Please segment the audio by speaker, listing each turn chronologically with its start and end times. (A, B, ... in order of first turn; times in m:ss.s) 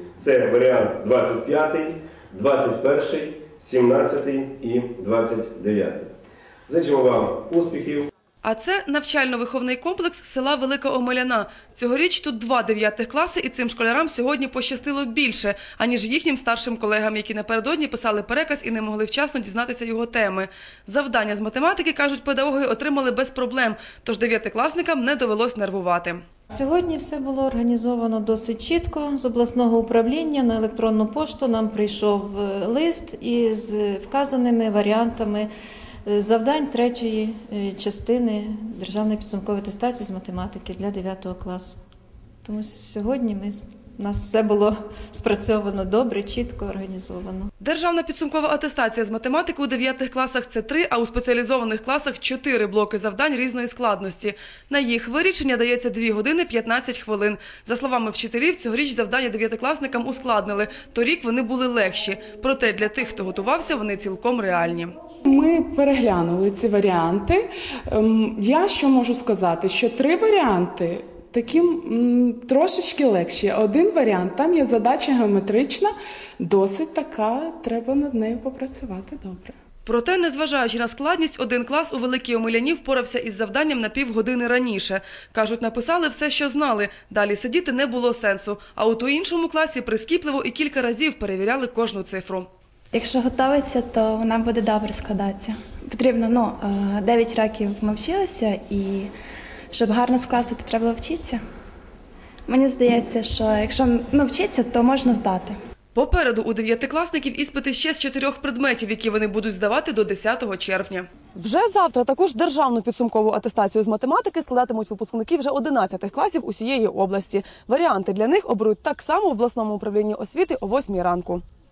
0:00.2-0:06.1 A
0:06.7-0:08.1 A
0:08.4-0:26.2 B
0:26.5-0:35.5 C
0:36.0-0:41.8 C
0:42.4-0:47.5 C
0:47.6-1:04.9 B
1:05.2-1:19.6 D
1:19.8-1:32.5 B
1:32.9-1:39.1 E
1:39.7-1:41.4 E
1:42.5-1:45.6 E
1:45.9-2:01.4 B